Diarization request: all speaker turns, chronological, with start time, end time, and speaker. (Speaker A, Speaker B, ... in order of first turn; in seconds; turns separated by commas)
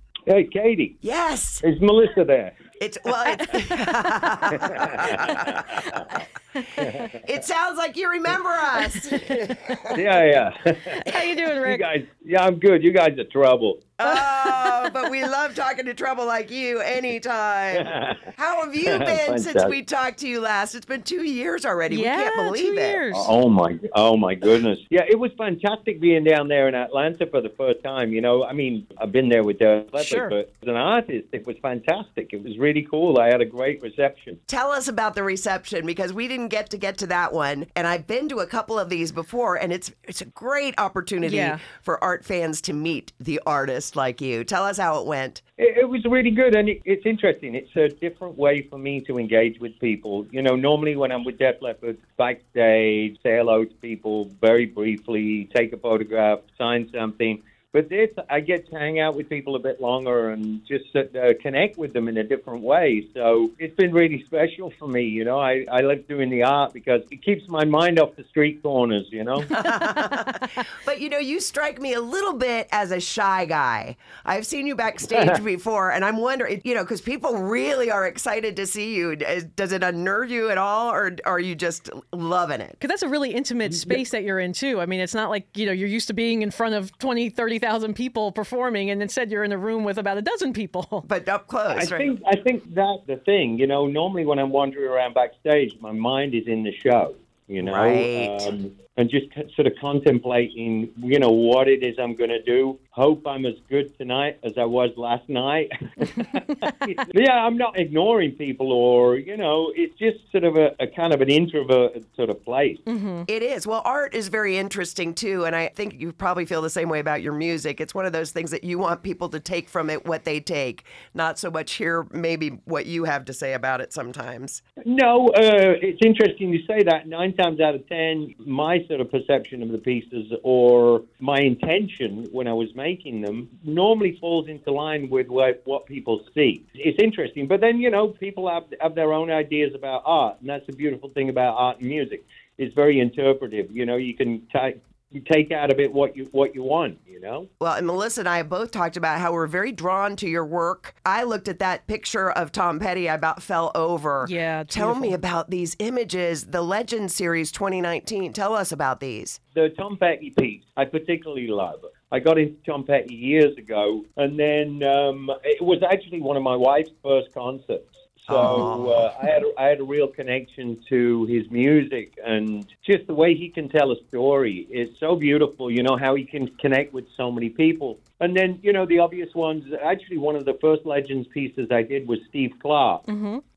Speaker A: 0.3-1.0, Speaker B: 1.0-1.6, Speaker A: 1.6-2.5, Speaker B: 2.8-6.2, Speaker C: 3.4-4.0, Speaker A: 4.5-6.1, Speaker C: 6.5-6.9, Speaker A: 6.8-7.2, Speaker B: 7.1-9.7, Speaker C: 8.8-10.0, Speaker A: 9.9-13.9, Speaker C: 11.0-11.9, Speaker B: 14.0-23.0, Speaker C: 14.0-14.9, Speaker A: 17.7-18.3, Speaker A: 18.8-19.8, Speaker C: 21.9-23.3, Speaker A: 23.1-34.4, Speaker C: 30.0-30.3, Speaker B: 34.5-45.4, Speaker C: 41.2-41.6, Speaker A: 45.6-69.5, Speaker B: 69.5-82.8, Speaker C: 69.5-70.2, Speaker C: 82.8-91.0, Speaker B: 91.0-92.1, Speaker A: 91.7-112.8, Speaker B: 97.6-98.5, Speaker C: 106.1-106.7, Speaker C: 112.9-113.3, Speaker B: 113.3-124.6, Speaker A: 124.8-147.5, Speaker B: 147.6-159.4, Speaker C: 154.2-155.2, Speaker A: 159.5-183.0, Speaker B: 168.3-169.1, Speaker C: 183.1-183.4